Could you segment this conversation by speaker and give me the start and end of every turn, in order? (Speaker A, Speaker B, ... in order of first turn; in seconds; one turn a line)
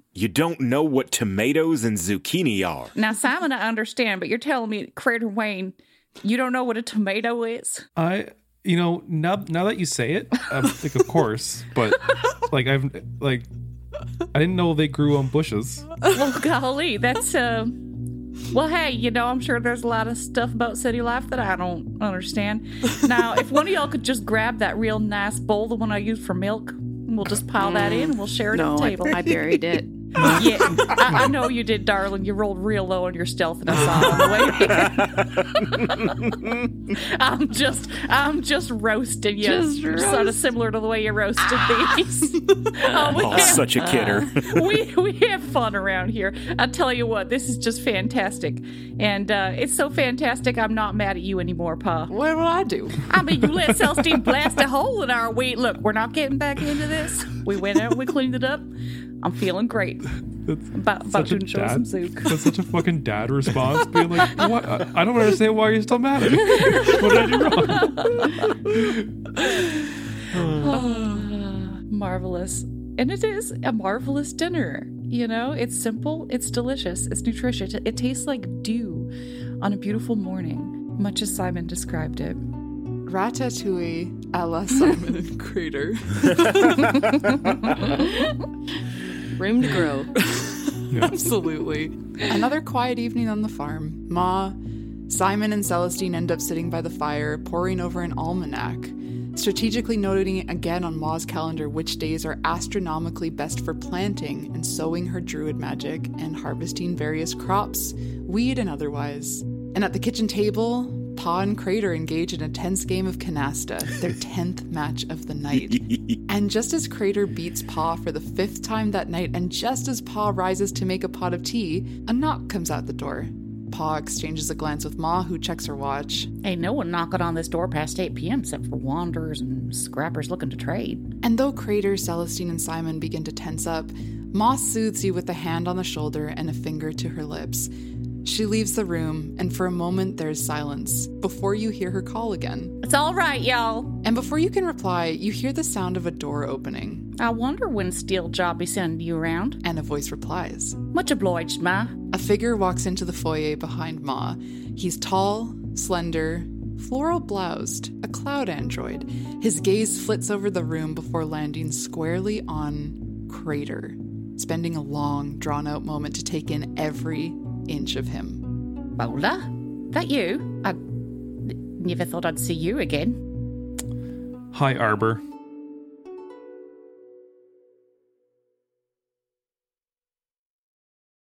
Speaker A: 0.1-2.9
Speaker B: 3.0-7.8
Speaker C: 8.0-13.5
Speaker C: 14.3-15.9
Speaker B: 16.1-17.8
Speaker B: 18.5-29.4
Speaker D: 27.6-30.8
Speaker B: 30.2-36.3
Speaker D: 33.8-34.9
Speaker A: 34.8-36.5
Speaker B: 36.9-52.1
Speaker D: 39.4-40.4
Speaker D: 43.0-44.3
Speaker A: 43.1-44.6
Speaker E: 52.2-53.0
Speaker B: 53.1-58.7
Speaker B: 59.2-60.1
Speaker C: 60.5-69.0
Speaker B: 60.7-62.4
Speaker B: 67.7-68.5
Speaker B: 70.6-82.4
Speaker E: 83.1-87.4
Speaker D: 89.4-90.1
Speaker C: 90.9-91.2
Speaker E: 91.1-94.6
Speaker E: 95.1-126.3
Speaker A: 115.5-116.2
Speaker B: 126.4-131.1
Speaker E: 131.2-137.7
Speaker E: 138.2-142.8
Speaker B: 142.8-144.0
Speaker E: 144.0-147.1
Speaker B: 147.2-149.6
Speaker E: 149.6-150.8
Speaker B: 150.9-151.9
Speaker E: 152.1-168.5
Speaker B: 169.0-170.8
Speaker B: 171.4-173.2
Speaker C: 174.5-175.2